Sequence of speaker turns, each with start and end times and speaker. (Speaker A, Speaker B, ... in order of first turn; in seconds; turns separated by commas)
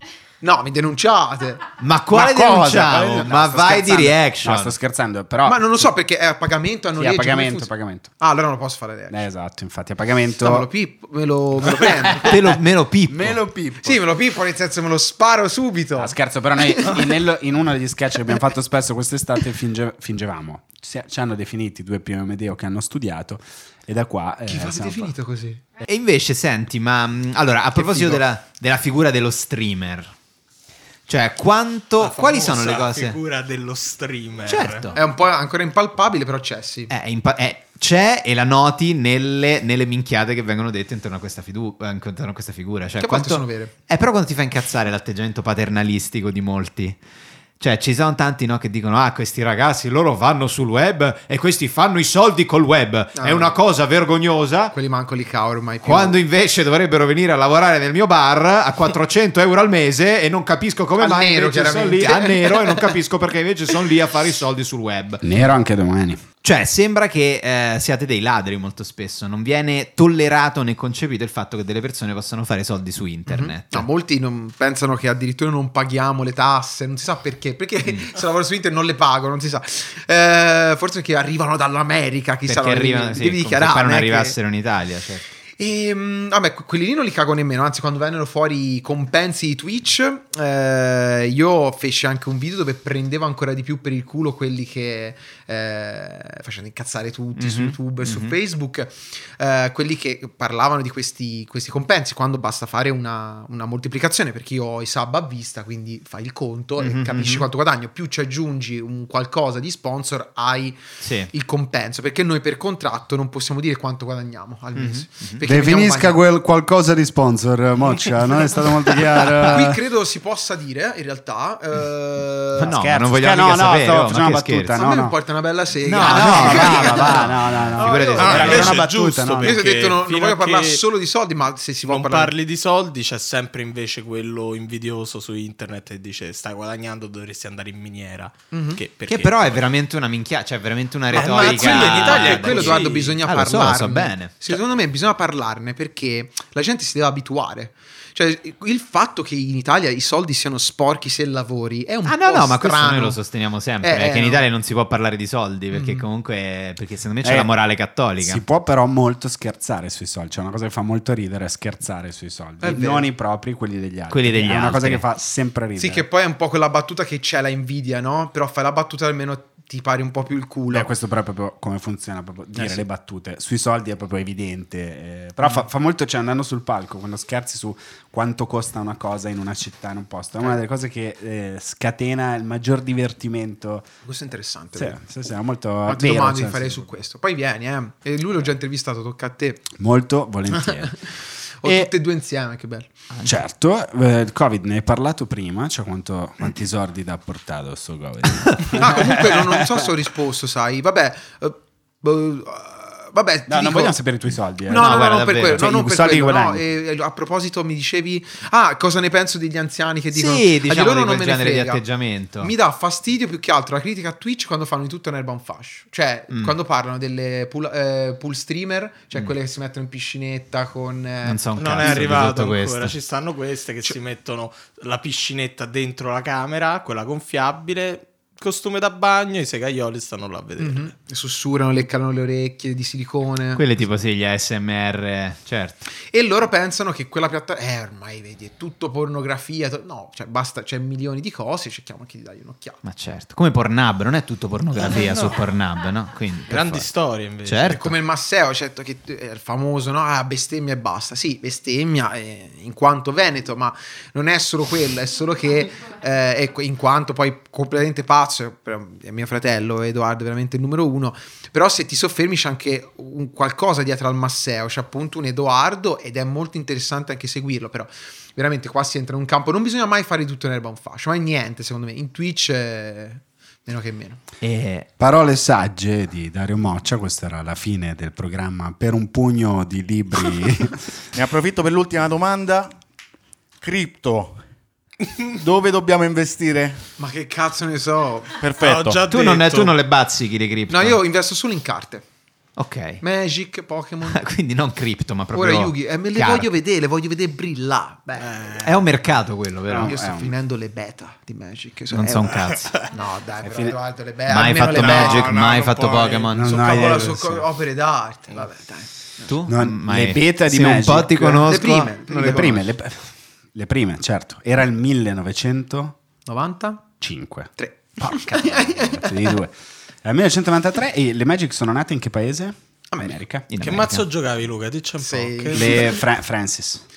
Speaker A: 0.4-1.7, Speaker B: 1.8-4.8, Speaker C: 2.1-6.0, Speaker A: 5.5-9.2, Speaker C: 7.0-8.1, Speaker C: 9.1-10.7, Speaker A: 10.4-12.4, Speaker B: 12.2-13.4, Speaker C: 13.1-14.0, Speaker A: 13.8-17.1, Speaker C: 16.0-25.1, Speaker A: 24.5-25.6, Speaker B: 25.8-30.1, Speaker A: 27.8-28.2, Speaker B: 31.1-33.2, Speaker D: 32.0-34.9, Speaker B: 34.5-35.0, Speaker A: 34.9-36.9, Speaker B: 36.9-47.0, Speaker A: 43.0-43.7, Speaker B: 47.6-54.8, Speaker A: 53.2-53.5, Speaker A: 54.7-56.2, Speaker B: 55.8-65.2, Speaker A: 61.0-62.8, Speaker C: 65.2-66.2, Speaker B: 66.4-73.9, Speaker A: 73.3-84.4, Speaker B: 82.5-85.2, Speaker A: 85.6-116.2, Speaker B: 97.4-98.4, Speaker B: 106.8-107.5, Speaker B: 111.0-111.3, Speaker B: 114.8-115.4, Speaker C: 115.4-119.8, Speaker A: 119.4-122.7, Speaker B: 122.6-124.8, Speaker C: 122.6-125.2, Speaker A: 124.7-127.3, Speaker B: 125.9-128.9, Speaker C: 126.0-129.6, Speaker D: 127.8-130.8, Speaker A: 127.9-128.7, Speaker A: 129.4-132.3, Speaker D: 131.8-139.7, Speaker A: 138.5-138.8, Speaker B: 139.1-144.6, Speaker D: 141.1-143.2, Speaker A: 141.2-153.2, Speaker B: 152.1-158.4, Speaker A: 153.8-154.5, Speaker A: 155.7-156.1, Speaker C: 157.2-157.5, Speaker C: 158.2-166.1, Speaker A: 162.6-163.1, Speaker B: 164.1-165.0, Speaker A: 165.8-170.9, Speaker C: 170.7-183.9, Speaker A: 184.1-185.0, Speaker C: 184.8-186.9, Speaker A: 185.9-189.7, Speaker C: 189.7-190.9, Speaker A: 190.6-191.1, Speaker A: 191.6-192.9, Speaker C: 191.6-191.9, Speaker B: 193.1-193.4, Speaker C: 193.2-199.9, Speaker B: 198.5-198.7, Speaker A: 198.8-204.0, Speaker C: 203.5-206.7, Speaker A: 204.7-211.8, Speaker B: 204.7-205.7, Speaker B: 210.1-212.5, Speaker A: 212.4-222.2, Speaker B: 221.2-222.9, Speaker D: 221.6-230.9, Speaker A: 230.6-233.6, Speaker B: 233.6-235.9, Speaker A: 236.1-242.8, Speaker B: 242.8-246.9, Speaker D: 244.8-245.4, Speaker D: 246.5-248.0, Speaker B: 247.4-247.9, Speaker A: 247.8-274.2, Speaker B: 274.4-274.9, Speaker C: 275.0-280.9, Speaker E: 281.1-282.8, Speaker E: 283.6-284.4, Speaker E: 285.3-286.9, Speaker A: 287.0-288.4, Speaker E: 288.4-289.1, Speaker D: 288.6-289.8, Speaker B: 289.1-291.0, Speaker A: 290.7-292.1, Speaker B: 292.6-293.0, Speaker A: 293.0-294.2, Speaker B: 294.1-296.5, Speaker A: 295.4-298.6, Speaker D: 298.2-298.8, Speaker B: 298.6-300.0, Speaker C: 299.7-300.4, Speaker A: 299.8-305.3, Speaker B: 301.9-302.8, Speaker C: 303.4-303.8, Speaker B: 304.3-306.7, Speaker D: 304.6-306.4, Speaker C: 306.3-307.5, Speaker A: 306.4-309.3, Speaker B: 309.2-312.6, Speaker C: 309.5-311.6, Speaker A: 311.5-312.6, Speaker C: 312.1-316.0, Speaker A: 316.3-316.9, Speaker C: 317.0-323.5, Speaker A: 317.6-319.3, Speaker B: 323.5-324.1, Speaker D: 323.6-325.9, Speaker A: 325.0-326.0, Speaker C: 325.5-326.8